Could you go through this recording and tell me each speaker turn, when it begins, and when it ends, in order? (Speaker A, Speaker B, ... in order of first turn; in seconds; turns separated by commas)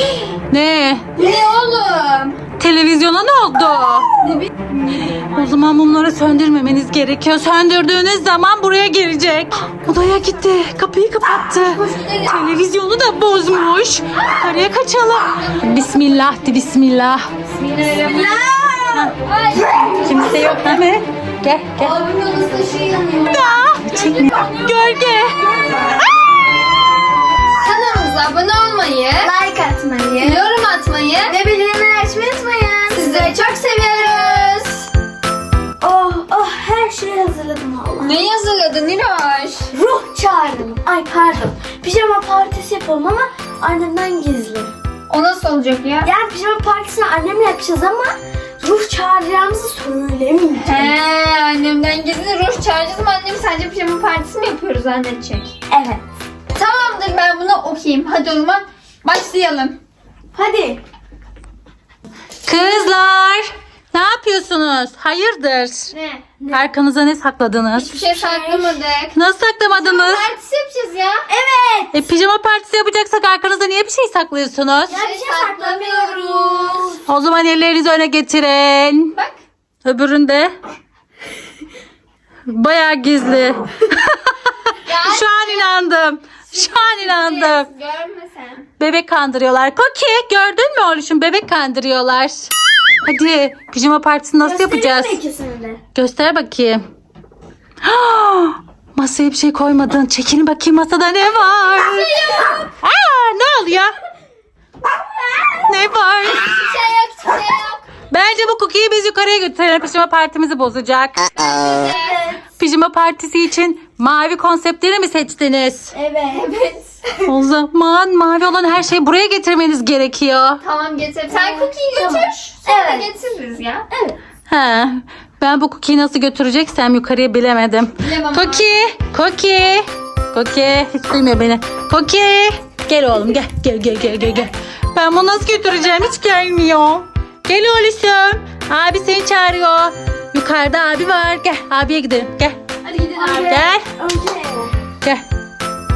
Speaker A: 0.5-1.1, Speaker B: 1.2-2.4, Speaker A: 2.6-4.1, Speaker B: 4.2-5.5, Speaker A: 5.2-17.2, Speaker B: 11.6-12.4, Speaker B: 15.3-16.4, Speaker B: 17.5-18.5, Speaker C: 17.8-19.1, Speaker B: 19.1-20.8, Speaker A: 20.1-21.9, Speaker B: 21.8-26.1, Speaker A: 23.3-25.4, Speaker B: 27.5-29.3, Speaker C: 29.2-30.4, Speaker B: 30.2-31.4, Speaker C: 31.3-33.4, Speaker B: 32.9-34.9, Speaker C: 35.8-38.3, Speaker B: 38.0-39.7, Speaker C: 39.7-44.7, Speaker B: 45.1-46.1, Speaker C: 46.0-51.0, Speaker B: 50.6-55.5, Speaker C: 55.7-56.0, Speaker B: 56.5-59.8, Speaker C: 60.3-60.8, Speaker A: 62.5-65.9, Speaker C: 65.9-66.7, Speaker A: 66.5-67.9, Speaker B: 67.8-69.2, Speaker C: 67.8-68.8, Speaker A: 69.2-70.3, Speaker B: 69.7-71.3, Speaker C: 71.3-72.0, Speaker A: 71.9-75.0, Speaker C: 74.9-77.0, Speaker B: 74.9-77.0, Speaker A: 77.1-79.1, Speaker A: 79.8-80.5, Speaker A: 82.5-84.2, Speaker B: 84.8-85.8, Speaker A: 85.0-87.7, Speaker B: 86.5-88.7, Speaker A: 88.8-92.5, Speaker A: 93.0-95.2, Speaker C: 94.4-95.8, Speaker A: 96.0-96.8, Speaker A: 97.8-102.1, Speaker B: 101.6-102.7, Speaker A: 102.8-103.9, Speaker C: 105.4-105.6, Speaker A: 105.7-106.6, Speaker B: 106.3-107.8, Speaker A: 108.1-111.4, Speaker B: 111.3-112.2, Speaker C: 111.7-112.4, Speaker A: 112.6-115.9, Speaker C: 115.9-116.5, Speaker B: 116.3-117.2, Speaker A: 117.2-120.6, Speaker B: 120.6-123.9, Speaker C: 121.3-123.1, Speaker C: 123.9-124.2, Speaker A: 124.5-142.6, Speaker B: 128.0-128.8, Speaker B: 142.8-143.6, Speaker C: 143.2-144.8, Speaker A: 143.4-143.8